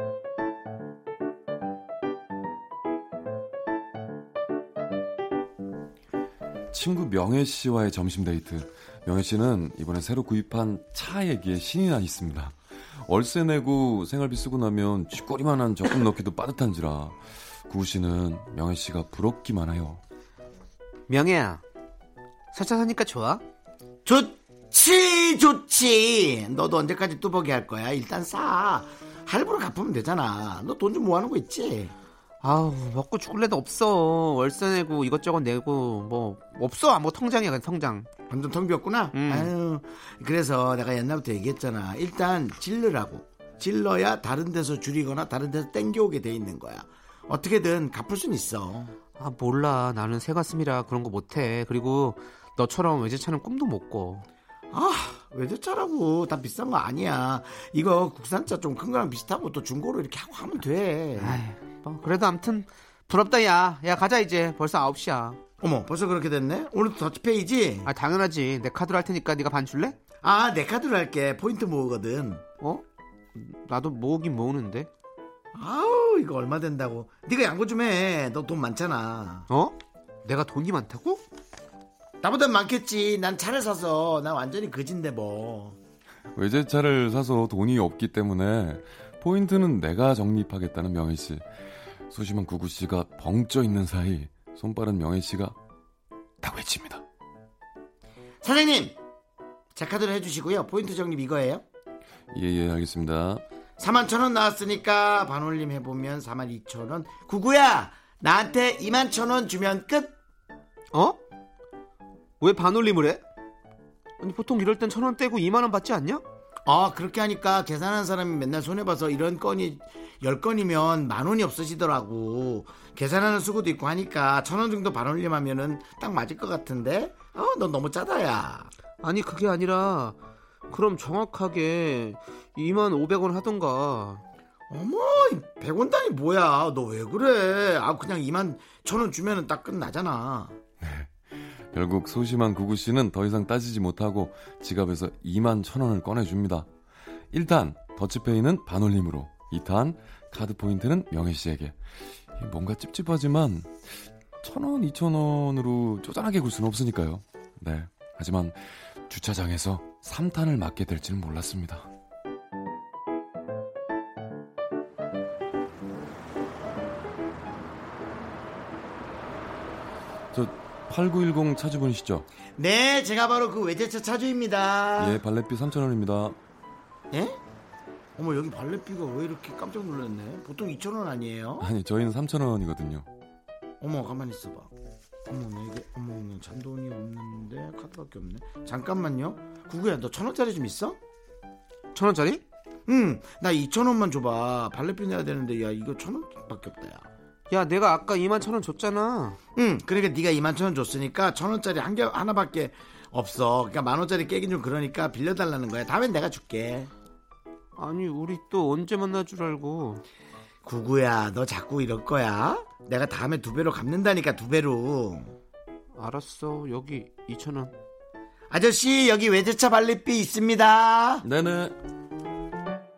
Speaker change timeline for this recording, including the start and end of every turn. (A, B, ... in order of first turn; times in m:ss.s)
0:06.7-0:20.0 A
0:21.1-0:21.6 B
0:22.5-0:23.4 B
0:24.0-0:31.9 C
0:32.4-0:38.1 B
0:38.3-0:48.9 C
0:39.1-0:39.5 B
0:49.2-0:54.2 B
0:54.7-1:01.4 C
1:01.2-1:05.4 B
1:05.6-1:07.9 C
1:07.8-1:10.0 B
1:10.2-1:12.4 C
1:13.3-1:14.9 B
1:15.5-1:19.5 C
1:19.5-1:21.2 B
1:22.2-1:25.8 C
1:26.3-1:31.4 A
1:32.1-1:35.6 A
1:36.4-1:37.0 A
1:38.4-1:39.0 C
1:39.7-1:41.6 C
1:42.3-1:43.4 A
1:43.8-1:50.1 C
1:50.9-1:51.2 B
1:52.4-1:53.2 B
1:54.2-1:56.2 B
1:56.6-2:08.7 C
2:09.0-2:10.2 B
2:10.7-2:14.2 B
2:14.7-2:20.6 C
2:20.8-2:26.7 A
2:27.3-2:41.9 A
2:50.3-2:52.2 A
2:52.6-2:55.2 C
2:55.0-2:56.4 A
2:57.1-2:57.4 C
2:58.2-3:01.7 C
3:01.6-3:03.0 A
3:03.8-3:04.7 C
3:05.3-3:11.0 C
3:11.9-3:12.4 B
3:12.9-3:17.0 C
3:17.5-3:19.4 B
3:19.6-3:26.9 C
3:27.8-3:30.0 B
3:30.6-3:35.3 C
3:36.0-3:37.7 B
3:38.5-3:41.2 C
3:41.2-3:41.7 A